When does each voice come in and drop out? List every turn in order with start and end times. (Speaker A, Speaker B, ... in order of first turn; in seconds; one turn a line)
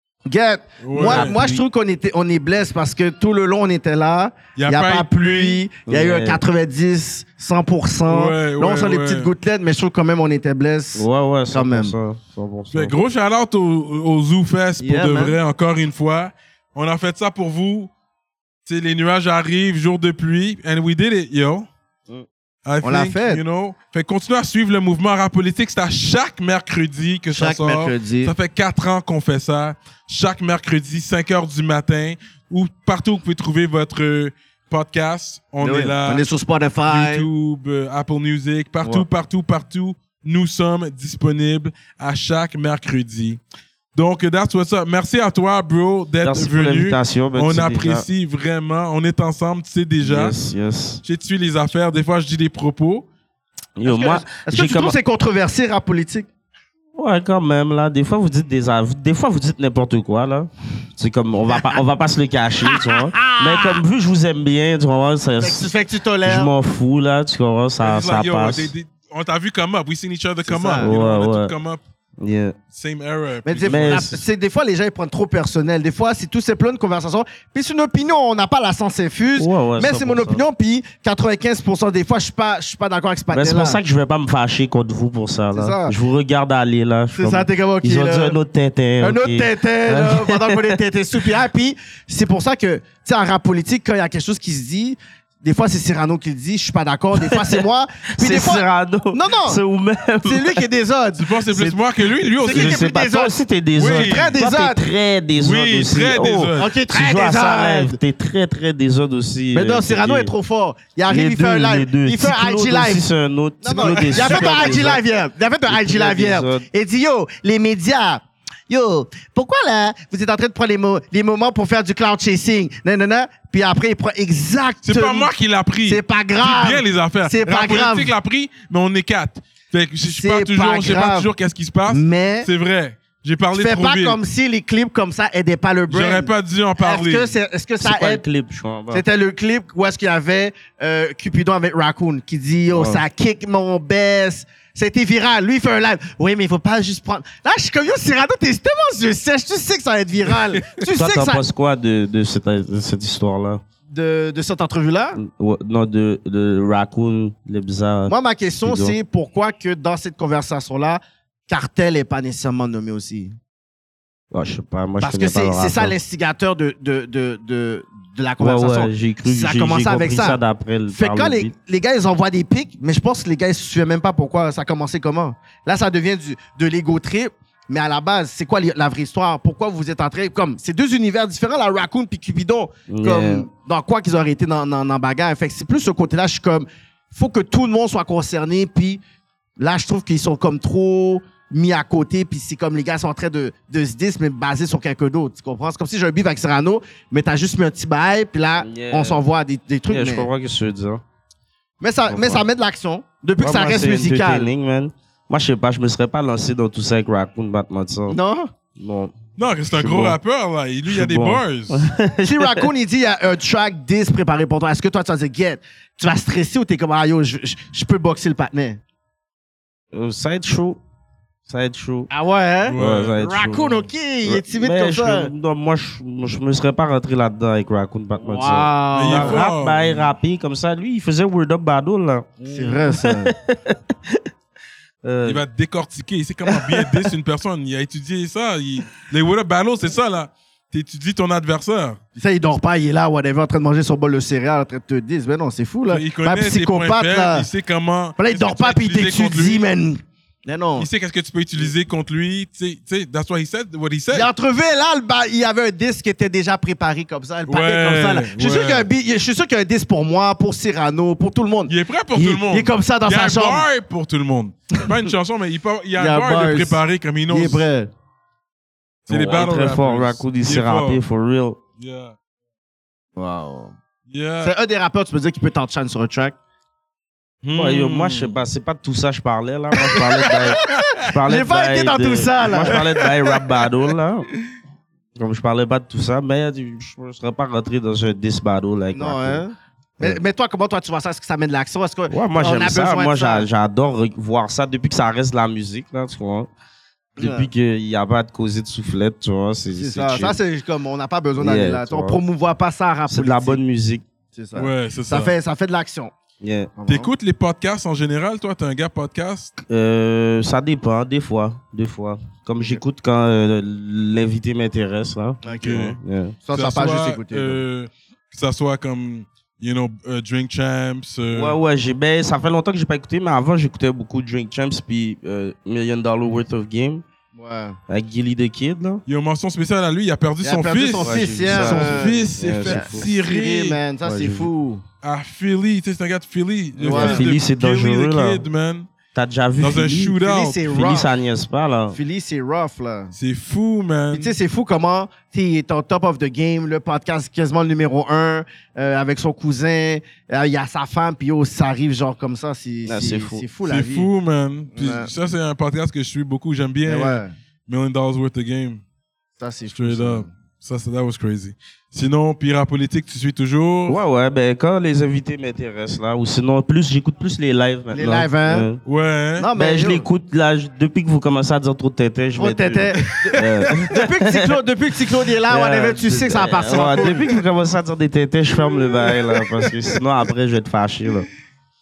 Speaker A: 0.3-11.9
Speaker B: 0.8-1.4
Speaker C: 1.0-1.6
Speaker B: 4.5-5.6
Speaker C: 5.9-6.4
Speaker B: 8.1-9.3
Speaker C: 10.9-12.9
Speaker B: 12.7-17.9
Speaker A: 14.8-15.4
Speaker B: 18.6-21.7
Speaker B: 22.6-36.3
Speaker A: 22.8-23.4
Speaker A: 27.3-28.3
Speaker A: 35.6-37.3
Speaker B: 36.9-43.4
Speaker B: 44.0-50.3
Speaker C: 46.2-48.0
Speaker C: 50.0-51.0
Speaker B: 51.0-53.1
Speaker C: 53.8-55.0
Speaker A: 53.8-56.3
Speaker C: 57.0-65.7
Speaker A: 61.5-61.8
Speaker A: 62.6-63.8
Speaker A: 65.4-66.5
Speaker C: 66.2-68.7
Speaker B: 67.8-71.8
Speaker A: 70.5-70.9
Speaker C: 70.8-71.5
Speaker C: 72.2-72.5
Speaker B: 72.7-74.1
Speaker A: 73.5-83.8
Speaker C: 73.7-74.2
Speaker C: 79.4-80.4
Speaker C: 83.3-90.8
Speaker A: 85.5-86.0
Speaker A: 87.1-88.4
Speaker A: 89.0-99.6
Speaker C: 97.1-100.6
Speaker A: 100.2-101.7
Speaker B: 101.2-102.9
Speaker A: 102.4-104.9
Speaker C: 102.5-110.3
Speaker B: 103.8-104.4
Speaker B: 105.4-106.7
Speaker A: 106.5-108.0
Speaker A: 109.5-113.0
Speaker C: 111.1-115.0
Speaker A: 113.6-125.3
Speaker B: 114.0-114.7
Speaker C: 115.7-116.6
Speaker B: 124.8-134.2
Speaker A: 125.8-128.1
Speaker A: 130.1-131.3
Speaker A: 131.9-132.5
Speaker A: 133.5-138.2
Speaker B: 135.9-137.4
Speaker C: 137.8-139.1
Speaker A: 138.9-151.4
Speaker C: 142.7-143.0
Speaker C: 150.9-153.6
Speaker A: 153.9-155.2
Speaker C: 155.2-159.0
Speaker A: 158.1-163.4
Speaker C: 164.3-166.0
Speaker A: 165.0-170.4
Speaker C: 168.4-171.5
Speaker A: 170.9-189.0
Speaker C: 182.9-183.5
Speaker A: 189.6-200.3
Speaker C: 198.6-199.2
Speaker C: 199.9-201.0
Speaker A: 201.8-204.5
Speaker C: 202.1-202.4
Speaker C: 203.4-208.2
Speaker A: 208.1-208.5
Speaker C: 208.8-209.2
Speaker B: 209.4-211.8
Speaker C: 209.7-210.2
Speaker C: 210.9-212.7
Speaker A: 212.2-218.8
Speaker C: 219.9-220.8
Speaker C: 221.5-222.1
Speaker A: 222.1-225.3
Speaker B: 222.7-223.2
Speaker C: 222.8-234.3
Speaker A: 228.2-229.4
Speaker B: 228.9-230.1
Speaker A: 232.4-233.3
Speaker C: 235.0-235.4
Speaker B: 235.2-242.0
Speaker C: 236.5-237.1
Speaker A: 242.2-247.5
Speaker B: 245.9-249.6
Speaker A: 248.2-250.9
Speaker B: 250.8-254.3
Speaker A: 254.1-263.7
Speaker B: 257.5-258.9
Speaker B: 261.7-267.6
Speaker A: 265.9-267.9
Speaker B: 269.1-271.0
Speaker C: 269.1-271.6
Speaker B: 271.8-272.1
Speaker A: 273.1-273.7
Speaker B: 274.1-274.6
Speaker A: 274.4-276.4
Speaker B: 277.4-278.3
Speaker C: 277.5-284.3
Speaker A: 279.8-282.9
Speaker B: 282.6-283.5
Speaker C: 285.2-289.4
Speaker A: 288.9-293.5
Speaker C: 292.1-296.5
Speaker A: 297.2-297.5
Speaker C: 297.2-300.4
Speaker A: 299.7-303.6
Speaker C: 301.4-302.2
Speaker C: 303.1-304.0
Speaker A: 304.3-306.1
Speaker B: 304.6-305.3
Speaker C: 306.4-306.7
Speaker A: 306.8-307.1
Speaker B: 306.9-309.5
Speaker C: 309.6-316.4
Speaker A: 315.4-315.9
Speaker B: 315.6-316.0
Speaker A: 316.4-317.6
Speaker B: 316.5-321.6
Speaker C: 321.3-327.0
Speaker A: 327.3-327.8
Speaker C: 327.9-329.0
Speaker B: 329.1-333.8
Speaker A: 330.4-334.8
Speaker C: 331.0-333.1
Speaker C: 334.0-334.5
Speaker B: 335.0-338.9
Speaker A: 336.8-337.3
Speaker C: 336.9-338.4
Speaker C: 339.1-340.1
Speaker B: 339.6-340.7
Speaker A: 340.1-341.1
Speaker C: 340.7-342.0
Speaker A: 341.9-343.1
Speaker B: 343.1-344.3
Speaker A: 344.1-354.1
Speaker C: 352.9-353.4
Speaker B: 353.6-358.8
Speaker A: 354.7-355.1
Speaker A: 356.8-357.3
Speaker A: 359.4-360.3
Speaker B: 359.7-364.0
Speaker C: 363.9-368.8
Speaker A: 367.9-368.7
Speaker B: 368.8-369.5
Speaker A: 369.4-370.1
Speaker C: 369.6-374.6
Speaker A: 372.4-373.1
Speaker B: 373.1-373.5
Speaker A: 373.9-377.4
Speaker C: 375.5-381.3
Speaker B: 379.1-379.7